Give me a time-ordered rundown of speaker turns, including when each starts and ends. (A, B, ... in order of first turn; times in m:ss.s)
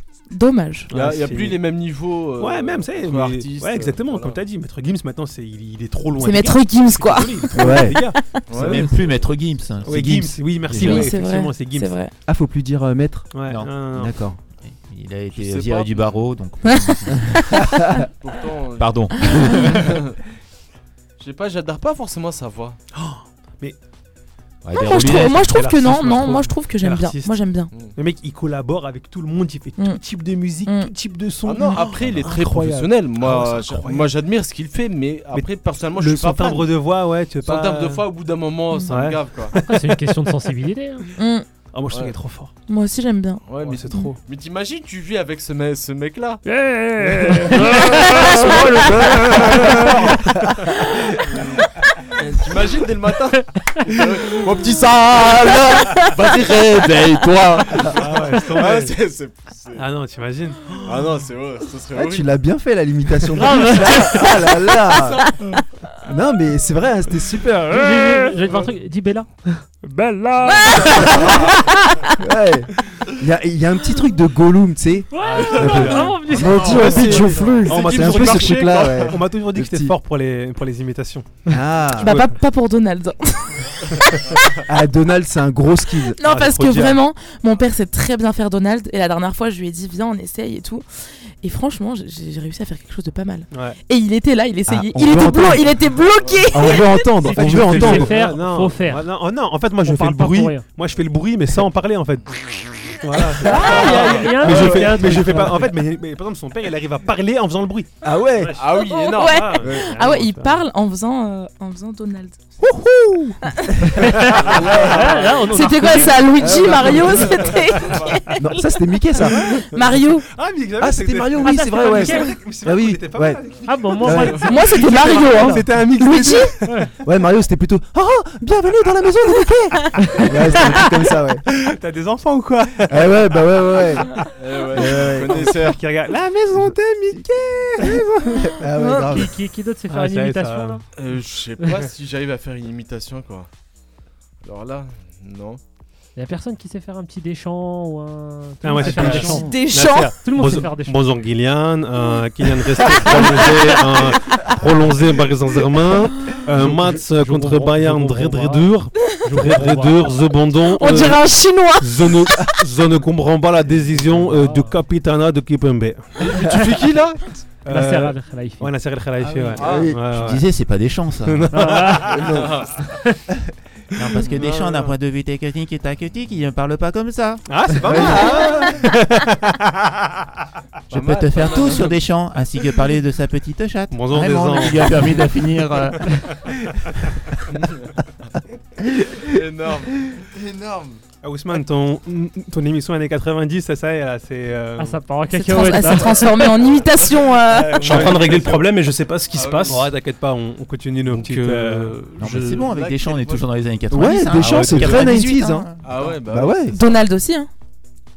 0:00.3-0:00.9 A
0:00.9-0:01.6 B
0:00.9-0:04.4 C
0:02.4-0:09.2 B
0:06.2-0:08.7 A
0:07.5-0:08.1 D
0:08.5-0:08.8 C
0:08.5-0:11.1 E
0:09.8-0:12.0 B
0:10.6-0:12.1 A
0:12.2-0:14.4 D
0:13.3-0:14.1 B
0:13.4-0:13.9 E
0:14.6-0:17.4 E
0:15.3-0:16.3 C
0:16.6-0:17.7 A
0:18.1-0:20.2 C
0:18.8-0:20.0 E
0:21.2-0:22.8 C
0:22.9-0:23.8 B
0:24.6-0:25.7 E
0:24.7-0:27.7 A
0:25.0-0:34.1 B
0:27.7-0:28.0 C
0:29.8-0:30.0 A
0:30.6-0:30.9 A
0:31.4-0:36.7 C
0:31.6-0:31.9 A
0:31.9-0:32.4 E
0:35.3-0:38.0 B
0:37.4-0:39.6 C
0:38.9-0:40.0 B
0:39.6-0:41.1 F
0:41.2-0:41.4 A
0:41.7-0:42.5 B
0:41.9-0:42.2 C
0:42.7-0:44.1 A
0:43.4-0:46.4 C
0:43.6-0:44.2 B
0:46.4-0:50.1 F
0:47.6-0:50.1 C
0:51.3-0:51.6 C
0:52.1-0:59.8 C
0:57.8-0:59.0 B
0:59.7-1:01.2 B
1:00.8-1:02.3 C
1:01.9-1:05.2 D
1:03.4-1:04.3 F
1:06.0-1:07.7 D
1:07.7-1:11.5 F
1:10.4-1:12.1 A
1:12.2-1:19.9 D
1:15.1-1:17.5 F
1:15.2-1:22.3 B
1:16.4-1:19.2 C
1:21.5-1:22.2 D
1:21.9-1:23.7 A
1:24.6-1:26.2 D
1:26.2-1:30.8 A
1:26.2-1:27.0 B
1:31.4-1:37.3 A
1:33.5-1:33.8 B
1:34.7-1:35.8 D
1:36.5-1:38.1 D
1:37.2-1:50.6 B
1:37.3-1:39.1 F
1:39.8-1:40.6 F
1:43.4-1:45.7 F
1:43.6-1:44.3 A
1:43.6-1:43.8 D
1:44.5-1:44.9 D
1:48.0-1:48.6 D
1:48.6-1:49.5 C
1:48.7-1:52.4 A
1:49.6-1:49.9 D
1:52.6-1:53.3 B
1:53.4-1:53.9 A
1:53.8-1:55.0 D
1:54.0-1:56.3 F
1:54.3-1:57.0 B
1:54.9-1:58.7 A
1:56.4-1:57.4 D
1:57.2-1:58.3 C
1:58.4-1:59.5 D
1:59.3-2:00.3 A
1:59.4-2:06.9 B
2:00.8-2:03.4 D
2:01.4-2:02.3 F
2:03.6-2:05.6 F
2:04.0-2:04.4 D
2:04.3-2:04.6 C
2:04.4-2:06.6 A
2:06.6-2:06.9 F
2:07.0-2:11.5 D
2:11.5-2:14.2 B
2:12.9-2:14.1 D
2:14.3-2:15.8 C
2:14.7-2:15.7 D
2:14.7-2:17.2 B
2:16.5-2:19.3 D
2:18.6-2:19.2 A
2:19.0-2:20.8 F
2:19.9-2:20.8 B
2:20.9-2:23.5 C
2:24.4-2:25.6 C
2:26.2-2:31.0 F
2:28.6-2:41.2 B
2:28.8-2:30.2 A
2:29.0-2:29.5 D
2:32.0-2:34.5 A
2:36.6-2:40.2 F
2:40.6-2:42.5 A
2:41.8-2:46.1 B
2:43.8-2:44.8 F
2:46.2-2:47.4 C
2:47.6-2:50.4 B
2:47.7-2:48.7 F
2:49.5-2:50.1 D
2:49.6-2:50.0 C
2:50.0-2:51.6 E
2:51.3-2:52.3 B
2:51.5-2:52.2 F
2:52.1-2:52.5 D
2:52.2-2:52.8 C
2:53.9-2:58.2 E
2:54.2-2:54.9 C
2:57.4-3:00.1 B
2:57.8-2:58.7 D
3:00.9-3:02.0 C
3:00.9-3:06.1 E
3:03.9-3:06.1 B
3:07.6-3:07.9 C
3:09.2-3:11.0 C
3:11.2-3:15.0 B
3:14.8-3:16.5 F
3:15.3-3:18.0 A
3:16.7-3:18.2 C
3:17.6-3:18.6 B
3:17.8-3:19.9 G
3:19.3-3:19.9 C
3:19.7-3:22.0 B
3:21.1-3:22.7 G
3:22.2-3:26.2 E
3:22.4-3:23.5 C
3:23.9-3:25.7 D
3:24.4-3:25.0 B
3:25.1-3:25.6 A
3:25.8-3:26.7 C
3:26.2-3:26.8 D
3:26.6-3:27.5 A